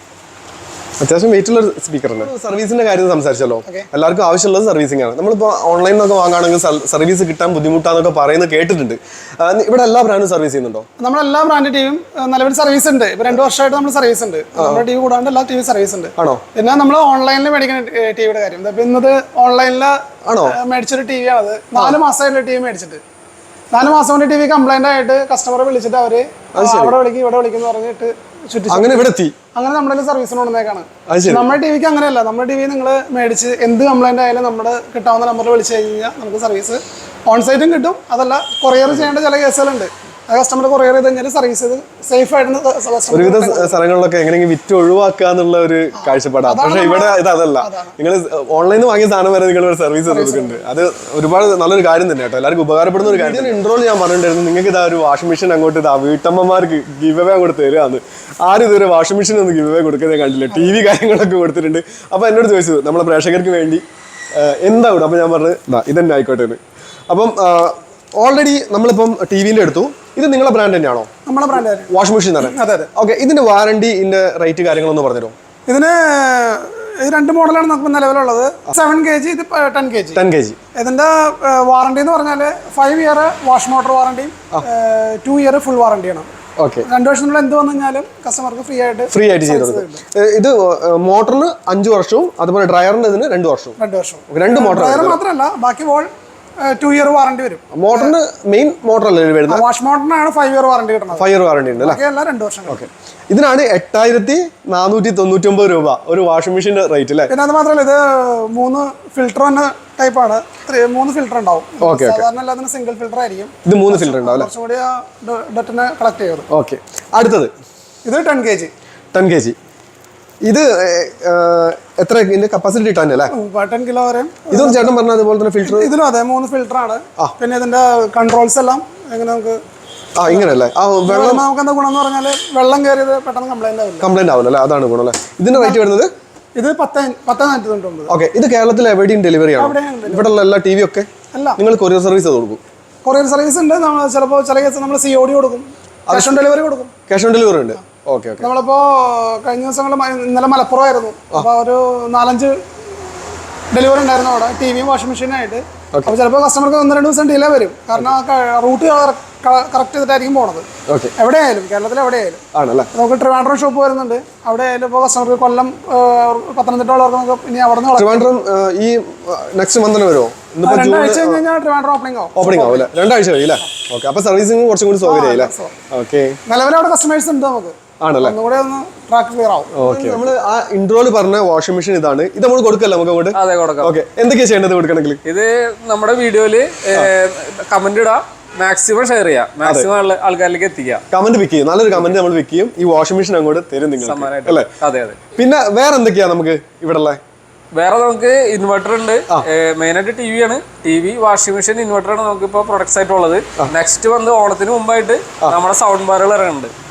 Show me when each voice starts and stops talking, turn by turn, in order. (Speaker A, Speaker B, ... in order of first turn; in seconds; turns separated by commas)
Speaker A: 1.0-10.9, Speaker B: 11.0-23.0, Speaker A: 14.6-14.8, Speaker A: 16.2-16.4, Speaker A: 20.2-20.6, Speaker B: 23.7-43.8, Speaker A: 26.5-27.0, Speaker A: 28.7-29.3, Speaker A: 31.1-31.5, Speaker A: 43.1-63.8, Speaker B: 46.0-47.9, Speaker B: 50.1-50.6, Speaker B: 53.0-53.6, Speaker B: 60.5-60.8, Speaker A: 64.3-66.6, Speaker A: 67.1-71.1, Speaker B: 71.2-72.9, Speaker A: 71.9-75.3, Speaker B: 75.7-80.2, Speaker A: 80.1-80.6, Speaker B: 80.7-86.3, Speaker A: 86.6-86.9, Speaker B: 86.8-90.0, Speaker A: 89.1-93.8, Speaker B: 93.8-96.1, Speaker A: 94.3-95.2, Speaker B: 96.6-98.1, Speaker A: 97.7-99.6, Speaker B: 99.5-101.2, Speaker A: 101.1-102.0, Speaker B: 101.8-102.9, Speaker A: 102.7-107.3, Speaker B: 107.3-116.5, Speaker A: 111.8-112.2, Speaker A: 113.6-114.5, Speaker A: 116.5-117.5, Speaker B: 118.0-118.7, Speaker A: 119.1-119.6, Speaker A: 120.4-123.3, Speaker B: 123.3-124.9, Speaker A: 124.5-125.9, Speaker B: 125.6-129.6, Speaker A: 130.2-131.4, Speaker B: 131.0-134.1, Speaker A: 134.0-136.1, Speaker B: 135.5-135.8, Speaker B: 136.6-138.1, Speaker A: 138.1-142.6, Speaker B: 139.6-140.3, Speaker B: 141.3-141.6, Speaker B: 143.0-146.9, Speaker A: 146.1-146.3, Speaker A: 147.1-148.5, Speaker B: 148.4-152.8, Speaker B: 153.7-162.4, Speaker A: 160.9-161.1, Speaker A: 162.5-162.9, Speaker B: 162.9-168.3, Speaker A: 167.9-171.4, Speaker B: 170.6-172.9, Speaker A: 172.3-176.4, Speaker B: 175.0-175.7, Speaker B: 176.4-180.3, Speaker A: 178.0-178.3, Speaker A: 179.7-185.2, Speaker C: 183.3-184.0, Speaker C: 185.2-191.0, Speaker A: 189.6-189.9, Speaker A: 191.1-194.7, Speaker C: 191.9-192.2, Speaker C: 194.0-195.2, Speaker A: 195.3-197.2, Speaker C: 197.7-206.7